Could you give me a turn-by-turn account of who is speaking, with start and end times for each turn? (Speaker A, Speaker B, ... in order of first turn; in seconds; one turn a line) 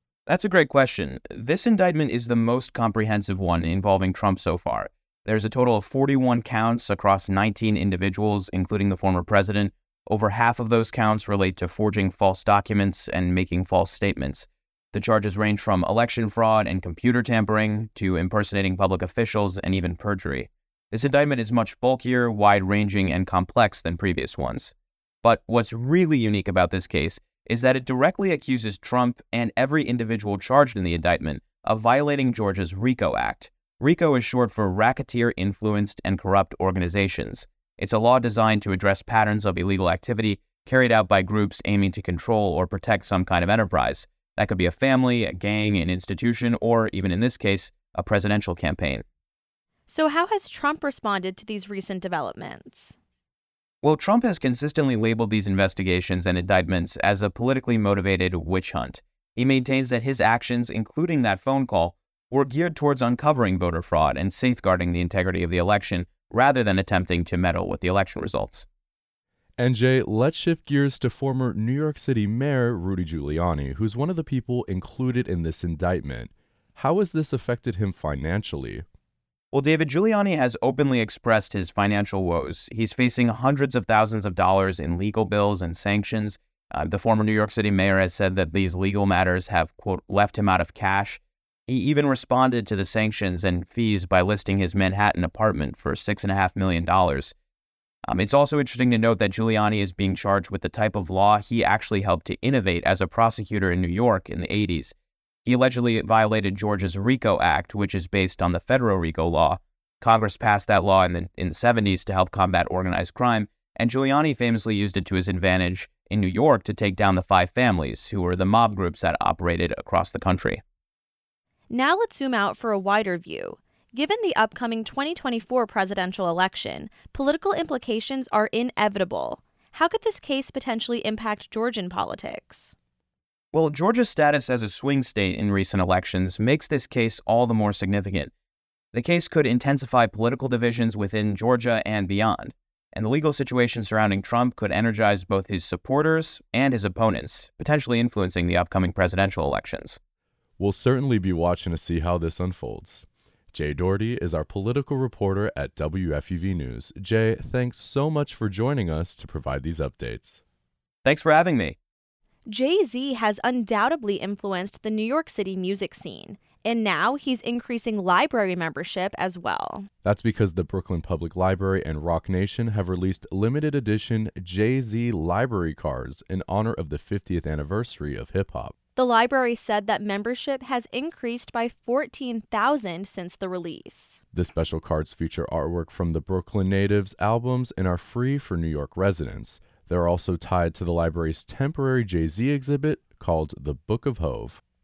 Speaker A: 0.3-49.0
Speaker B: 49.9-53.0
Speaker A: 53.8-68.7
Speaker C: 69.6-78.8
Speaker A: 79.5-97.3
Speaker A: 98.0-104.9
Speaker A: 105.4-120.6
Speaker B: 121.7-132.7
Speaker A: 133.5-138.3
Speaker A: 138.9-150.0
Speaker C: 150.6-160.4
Speaker A: 161.0-161.8
Speaker B: 162.5-169.9
Speaker C: 170.0-178.7
Speaker B: 178.9-184.2
Speaker C: 184.3-194.6